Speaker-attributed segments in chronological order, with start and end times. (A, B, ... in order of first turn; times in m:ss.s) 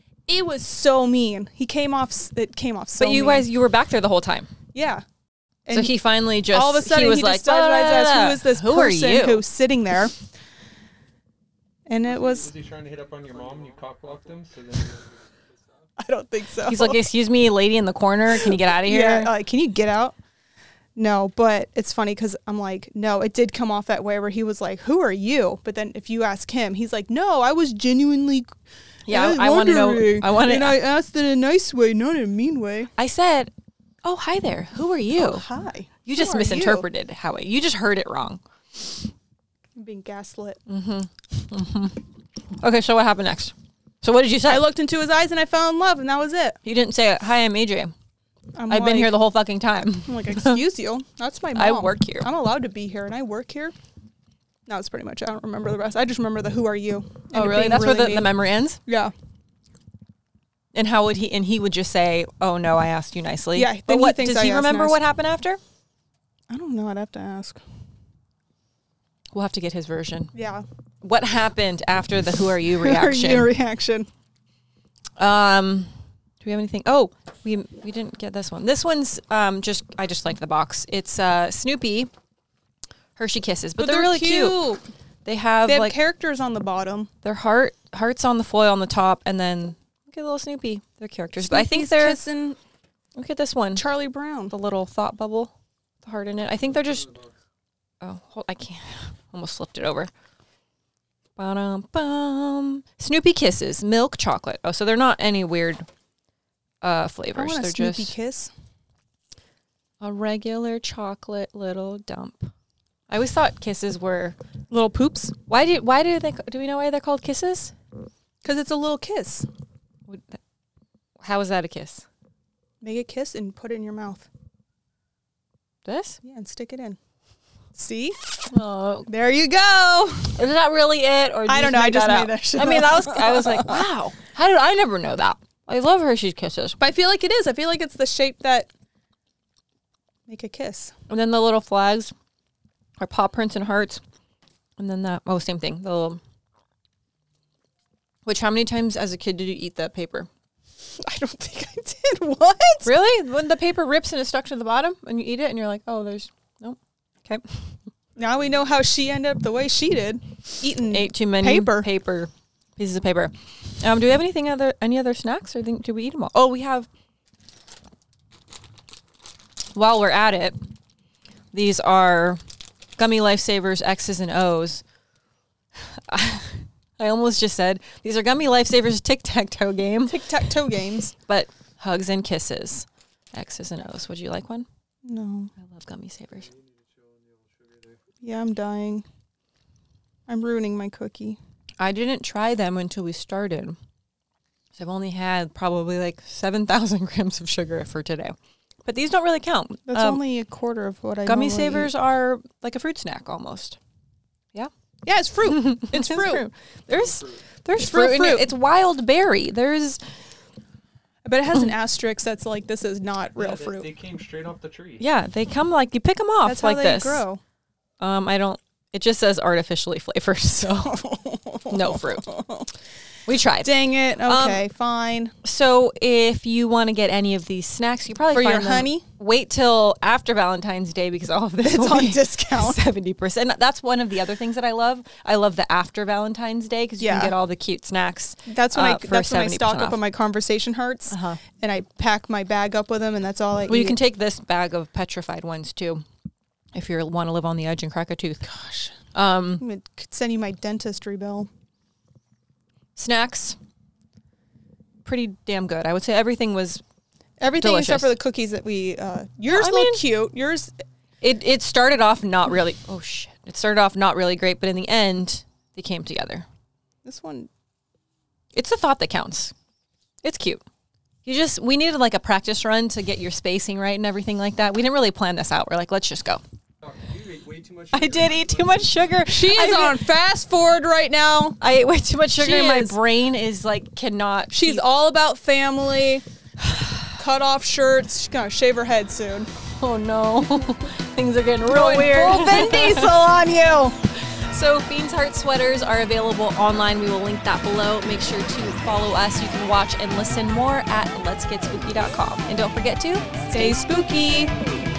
0:00.3-0:03.5 A
0:03.0-0:04.5 B
0:04.7-0:05.0 A
0:05.7-0:05.9 A
0:05.7-0:09.4 B
0:06.5-0:10.2 A
0:11.9-0:12.5 A
0:12.0-0:15.9 C
0:16.0-0:17.0 A
0:16.6-0:19.3 B
0:18.3-0:20.2 A
0:21.0-0:28.5 A
0:29.1-0:30.8 B
0:29.1-0:32.9 A
0:33.0-0:33.5 B
0:34.0-0:35.4 B
0:35.2-0:36.8 A
0:36.0-0:39.0 B
0:39.8-0:40.6 A
0:40.7-0:42.0 B
0:42.6-0:44.7 B
0:44.5-0:46.6 A
0:46.6-0:47.9 B
0:48.6-0:49.1 A
0:48.7-0:50.6 B
0:50.1-0:53.7 A
0:51.6-0:52.3 B
0:54.7-0:58.3 A
0:57.3-0:58.8 B
0:58.9-0:59.1 A
1:00.7-1:05.6 B
1:03.6-1:05.0 A
1:06.5-1:07.6 A
1:09.3-1:10.3 B
1:10.3-1:10.7 A
1:11.0-1:13.5 B
1:12.8-1:14.1 A
1:15.2-1:15.9 B
1:16.4-1:22.1 B
1:23.2-1:24.6 B
1:23.8-1:24.8 A
1:25.2-1:26.0 B
1:25.7-1:27.1 A
1:27.2-1:32.2 B
1:31.4-1:32.6 A
1:33.2-1:33.8 B
1:33.8-1:34.5 A
1:34.5-1:35.5 B
1:36.0-1:37.1 B
1:38.0-1:40.1 B
1:41.4-1:45.9 B
1:46.8-1:48.1 B
1:47.3-1:48.5 A
1:50.0-1:52.5 B
1:53.1-1:54.4 B
1:54.7-1:55.3 A
1:55.5-1:57.7 B
1:58.4-1:59.5 A
2:00.1-2:00.4 B
2:01.2-2:02.1 B
2:02.8-2:04.3 A
2:05.8-2:06.2 B
2:06.2-2:07.0 A
2:07.7-2:08.5 A
2:08.5-2:09.1 B
2:09.1-2:10.4 A
2:10.4-2:16.8 B
2:11.5-2:13.8 A
2:16.8-2:18.7 A
2:20.3-2:20.9 A
2:21.1-2:22.1 B
2:23.0-2:24.0 B
2:24.8-2:26.2 B
2:28.2-2:30.3 B
2:31.0-2:32.9 A
2:32.8-2:37.4 B
2:38.2-2:41.9 A
2:40.9-2:46.9 B
2:49.8-2:50.6 B
2:51.5-2:52.4 B
2:53.0-2:54.8 B
2:56.1-3:00.3 B
3:00.1-3:01.2 A
3:01.3-3:04.7 B
3:05.0-3:05.5 A
3:05.6-3:06.5 B
3:06.4-3:08.0 C
3:08.2-3:09.1 A
3:10.3-3:11.4 A
3:11.8-3:13.8 B
3:14.8-3:20.2 B
3:19.9-3:21.9 A
3:21.3-3:23.8 B
3:25.0-3:26.4 A
3:25.5-3:30.0 B
3:26.9-3:27.4 C
3:27.8-3:28.5 A
3:31.2-3:33.9 A
3:33.4-3:35.0 C
3:35.0-3:37.2 B
3:36.4-3:37.4 A
3:38.0-3:41.0 B
3:40.8-3:42.7 A
3:41.7-3:42.3 B
3:43.3-3:44.6 B
3:43.6-3:45.4 A
3:45.4-4:00.0 B
3:48.3-3:49.0 A
3:51.6-3:52.8 A
3:57.0-3:57.4 A
3:58.5-4:04.0 A
4:01.1-4:01.4 B
4:03.7-4:06.0 B
4:06.7-4:08.5 B
4:08.4-4:09.0 A
4:09.1-4:09.6 B
4:09.6-4:11.5 A
4:13.0-4:13.6 B
4:15.0-4:16.8 B
4:17.4-4:20.7 A
4:17.6-4:18.1 B
4:19.5-4:20.0 B
4:21.2-4:26.5 B
4:27.0-4:27.5 A
4:28.5-4:29.5 B
4:30.2-4:30.6 B
4:31.2-4:36.4 B
4:36.8-4:39.3 C
4:37.9-4:40.0 B
4:39.2-4:41.6 A
4:41.6-4:44.8 B
4:42.4-4:43.0 A
4:44.5-4:46.2 A
4:47.1-4:49.5 A
4:49.8-4:53.1 B
4:51.6-4:54.0 A
4:54.2-5:03.8 B
5:03.5-5:04.5 A